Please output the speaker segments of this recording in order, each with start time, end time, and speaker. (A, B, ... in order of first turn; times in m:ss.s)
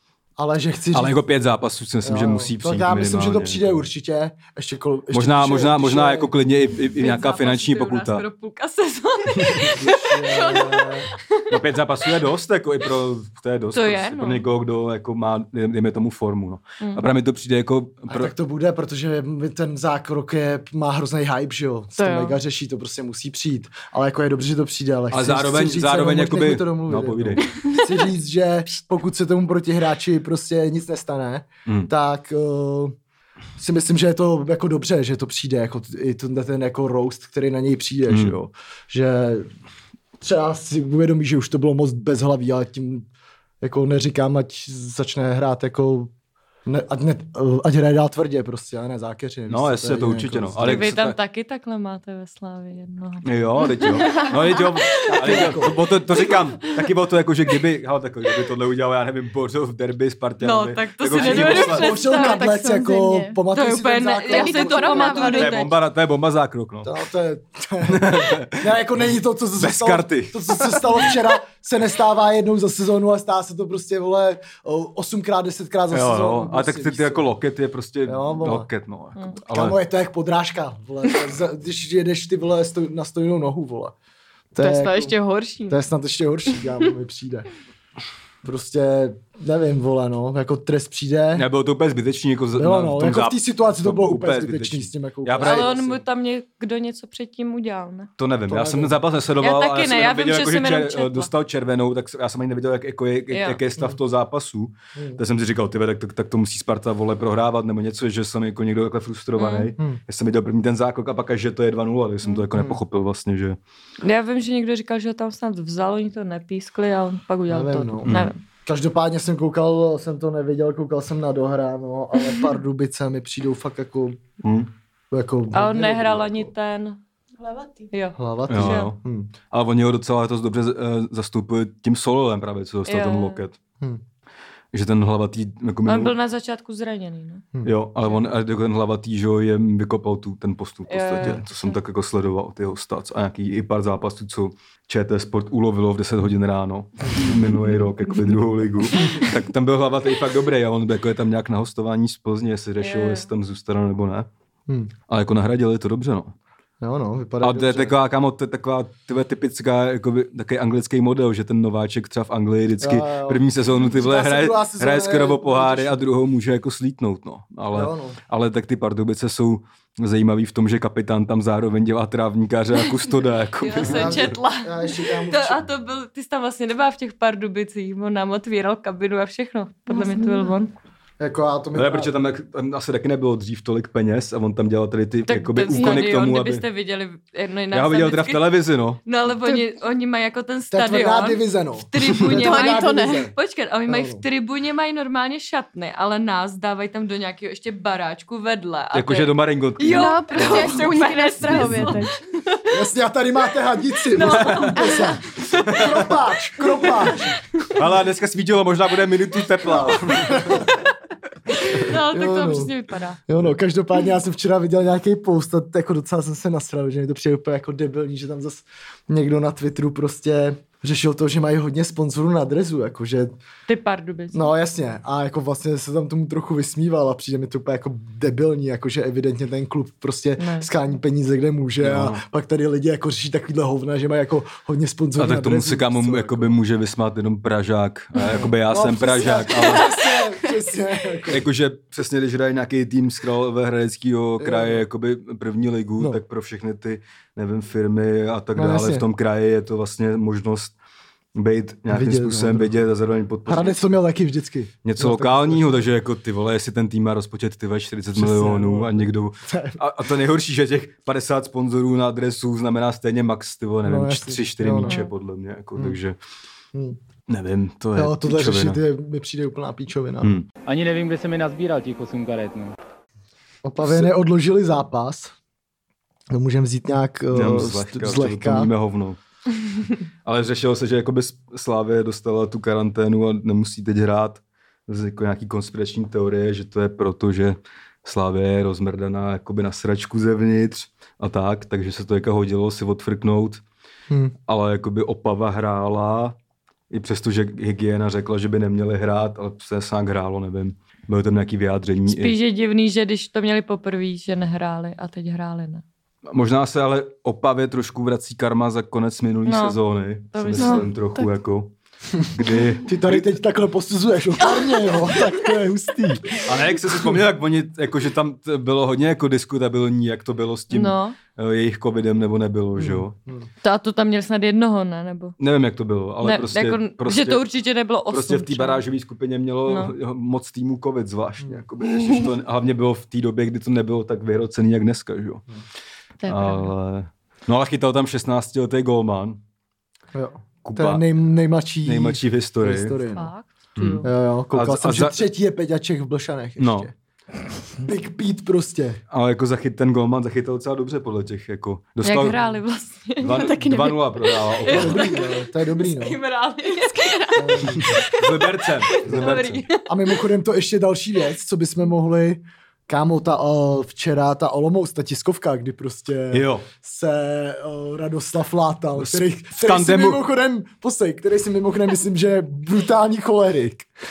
0:00.4-0:01.2 A
0:00.9-0:03.8 B
0:02.0-0:06.3 A
0:05.1-0:08.3 B
0:06.8-0:11.5 C
0:09.3-0:09.8 B
0:09.7-0:11.1 A
0:11.5-0:18.3 B
0:13.7-0:14.4 C
0:16.8-0:17.1 C
0:18.1-0:33.0 A
0:22.0-0:22.3 C
0:25.1-0:27.5 B
0:31.7-0:31.9 B
0:33.6-0:39.5 A
0:38.1-0:38.4 B
0:40.2-0:43.1 A
0:43.6-0:46.1 A
0:46.7-0:50.9 A
0:49.5-0:51.2 B
0:50.6-0:54.3 C
0:53.2-1:01.9 B
0:54.0-0:54.7 D
0:55.1-0:55.8 A
1:00.4-1:02.6 C
1:01.2-1:05.4 A
1:01.8-1:03.4 D
1:03.5-1:05.7 C
1:04.3-1:05.6 D
1:05.2-1:06.9 B
1:06.8-1:17.3 A
1:07.9-1:08.7 B
1:09.6-1:11.2 B
1:15.9-1:19.8 B
1:18.1-1:18.7 A
1:19.5-1:23.9 A
1:24.5-1:25.2 A
1:24.6-1:25.8 C
1:25.7-1:27.5 A
1:28.4-1:31.5 A
1:31.4-1:35.9 B
1:32.6-1:36.0 A
1:35.4-1:38.1 C
1:38.2-1:53.6 B
1:38.5-1:39.0 A
1:39.4-1:41.3 C
1:43.3-1:43.6 C
1:45.0-1:45.2 A
1:49.4-1:49.7 C
1:54.0-1:58.4 C
1:57.5-2:04.2 A
1:58.1-1:58.3 B
2:04.4-2:04.7 B
2:05.1-2:06.5 A
2:05.5-2:07.0 C
2:07.4-2:07.9 D
2:07.9-2:08.9 C
2:08.2-2:09.3 A
2:08.5-2:13.6 B
2:12.9-2:13.4 C
2:14.7-2:16.1 B
2:15.9-2:17.5 C
2:17.6-2:34.3 B
2:20.9-2:21.8 C
2:32.8-2:33.3 C
2:35.1-2:36.4 B
2:36.8-2:38.0 A
2:37.4-2:54.4 B
2:42.8-2:46.1 A
2:47.7-2:48.2 A
2:53.6-3:00.7 C
2:53.8-2:55.6 A
2:59.9-3:00.6 D
3:01.2-3:02.1 A
3:01.7-3:06.6 B
3:05.3-3:08.5 C
3:05.8-3:06.0 D
3:07.7-3:09.0 B
3:09.0-3:22.6 C
3:10.7-3:13.3 A
3:12.3-3:13.2 D
3:13.9-3:14.2 A
3:18.9-3:22.0 B
3:19.8-3:22.2 D
3:22.7-3:27.4 A
3:24.1-3:26.1 C
3:24.3-3:24.7 B
3:25.6-3:26.1 B
3:26.8-3:27.1 C
3:27.7-3:30.6 B
3:30.3-3:30.7 A
3:31.7-3:33.2 C
3:31.8-3:32.7 A
3:33.3-3:43.3 A
3:43.7-3:44.5 C
3:44.3-3:56.6 A
3:50.4-3:50.7 C
3:51.8-3:52.2 B
3:55.2-4:00.0 B
3:58.3-4:01.4 A
4:01.3-4:10.8 B
4:04.4-4:04.8 A
4:08.6-4:09.1 A
4:11.3-4:13.8 B
4:11.9-4:12.8 A
4:13.5-4:15.8 A
4:14.8-4:26.2 B
4:18.1-4:19.8 A
4:23.8-4:25.0 A
4:24.8-4:25.1 C
4:27.3-4:28.8 B
4:28.0-4:30.3 A
4:30.2-4:30.5 B
4:30.7-4:32.7 E
4:33.6-4:35.3 A
4:33.8-4:34.1 B
4:36.3-4:38.7 A
4:37.3-4:39.2 B
4:40.2-4:53.6 B
4:54.5-4:56.4 B
4:56.9-5:02.4 B
5:02.1-5:05.8 C
5:06.3-5:11.7 B
5:09.4-5:09.8 C
5:10.3-5:10.9 C
5:10.6-5:11.3 D
5:12.3-5:13.3 B
5:12.8-5:17.2 A
5:16.4-5:23.2 B
5:20.7-5:21.2 C
5:22.8-5:23.5 A
5:23.6-5:25.4 C
5:25.4-5:27.4 B
5:26.2-5:28.8 C
5:28.1-5:35.4 B
5:29.7-5:29.9 C
5:36.2-5:36.7 C
5:36.3-5:39.4 B
5:40.1-5:43.3 A
5:40.6-5:41.1 B
5:41.8-5:43.0 B
5:43.1-5:44.1 C
5:43.8-5:45.3 B
5:44.0-5:46.9 A
5:46.6-5:46.9 B
5:47.8-5:49.0 A
5:49.1-5:52.4 B
5:52.0-5:59.8 C
5:53.2-5:55.2 B
5:53.4-5:54.0 D
5:54.7-5:56.2 A
5:57.4-5:58.0 A
5:57.8-5:59.6 B
5:59.0-6:13.9 A
6:06.3-6:06.7 B
6:09.0-6:10.2 B